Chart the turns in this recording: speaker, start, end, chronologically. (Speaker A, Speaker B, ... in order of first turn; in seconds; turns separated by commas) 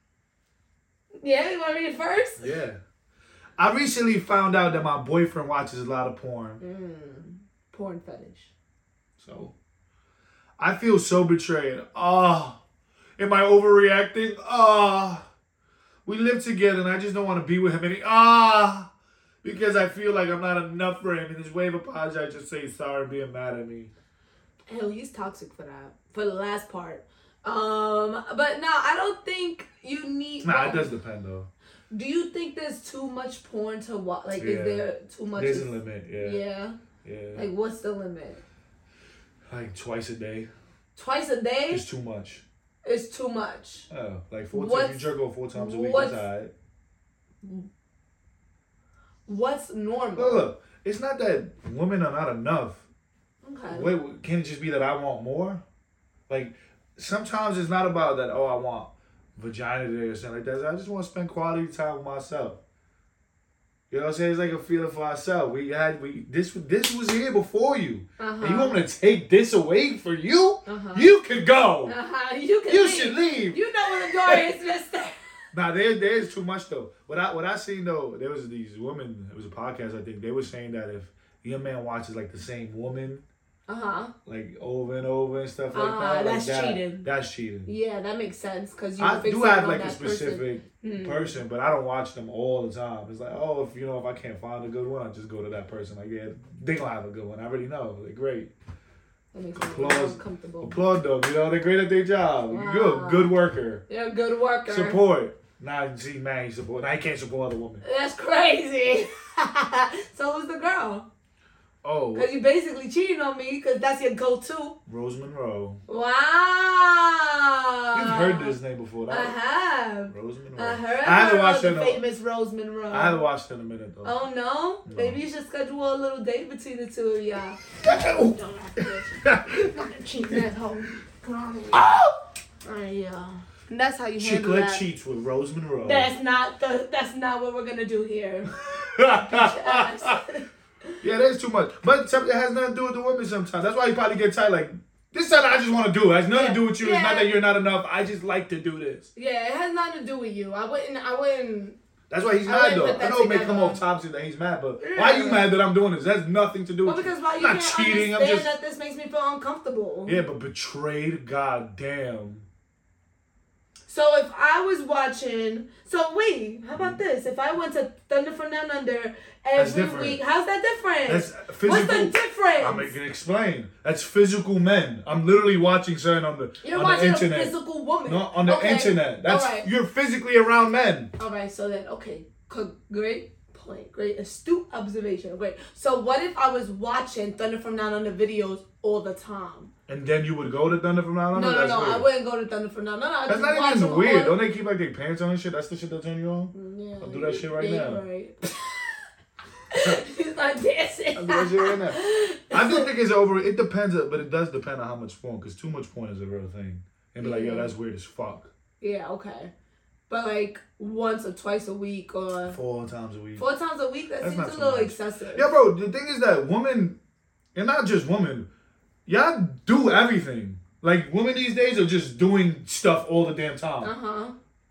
Speaker A: 1.2-2.5, Speaker B: 2.4-2.8, Speaker B: 3.6-6.6, Speaker A: 6.6-8.5, Speaker B: 9.2-9.5, Speaker B: 10.6-12.6, Speaker B: 13.2-15.3, Speaker B: 16.1-18.9, Speaker B: 19.4-23.9, Speaker A: 24.7-30.9, Speaker B: 30.4-31.5, Speaker A: 31.9-36.8, Speaker B: 34.4-36.4, Speaker B: 37.0-37.5, Speaker A: 37.3-38.4, Speaker B: 39.5-40.5, Speaker A: 41.0-41.8, Speaker B: 41.7-42.4, Speaker A: 42.8-43.9, Speaker B: 43.9-46.5, Speaker A: 44.5-46.2, Speaker A: 49.3-50.5, Speaker B: 50.2-52.8, Speaker A: 53.4-53.9, Speaker B: 53.7-55.6, Speaker B: 56.3-62.6, Speaker B: 63.9-72.0, Speaker A: 68.2-68.8, Speaker A: 70.7-71.1, Speaker A: 71.9-75.1, Speaker B: 72.7-74.5, Speaker B: 75.5-83.2, Speaker A: 83.7-84.1, Speaker B: 84.2-87.7, Speaker A: 85.7-87.1, Speaker A: 87.7-91.4, Speaker B: 89.0-98.5, Speaker A: 99.3-100.8, Speaker B: 99.5-103.8, Speaker A: 102.5-103.3, Speaker A: 103.9-105.0, Speaker B: 104.7-107.8, Speaker A: 107.8-111.1, Speaker B: 111.8-112.3, Speaker A: 112.1-114.8, Speaker B: 114.9-115.8, Speaker A: 115.9-118.5, Speaker B: 117.9-119.4, Speaker A: 119.1-123.2, Speaker B: 120.1-122.0, Speaker B: 122.9-124.2, Speaker A: 124.0-131.9, Speaker B: 124.8-125.2, Speaker B: 127.8-129.6, Speaker B: 131.7-132.1, Speaker A: 132.6-134.8, Speaker B: 134.2-136.1, Speaker A: 135.8-140.4, Speaker B: 138.5-140.2, Speaker B: 141.0-149.1, Speaker A: 146.3-147.3, Speaker A: 149.2-151.8, Speaker B: 152.1-158.5, Speaker A: 152.4-153.8, Speaker A: 154.8-155.5, Speaker A: 156.8-160.2, Speaker B: 160.1-162.5, Speaker A: 163.9-172.9, Speaker B: 166.8-167.0, Speaker B: 169.6-170.2, Speaker B: 171.1-181.1, Speaker A: 176.6-179.7, Speaker A: 181.2-189.7, Speaker B: 189.9-192.1, Speaker A: 191.3-194.4, Speaker B: 193.3-198.0, Speaker A: 196.5-198.9, Speaker A: 199.7-202.9, Speaker B: 201.1-208.5, Speaker A: 207.2-207.7, Speaker A: 208.8-209.5, Speaker A: 210.1-212.6, Speaker B: 212.5-213.4, Speaker A: 213.4-215.5, Speaker B: 214.2-217.0, Speaker B: 217.6-218.5, Speaker B: 219.1-223.9, Speaker A: 223.8-224.3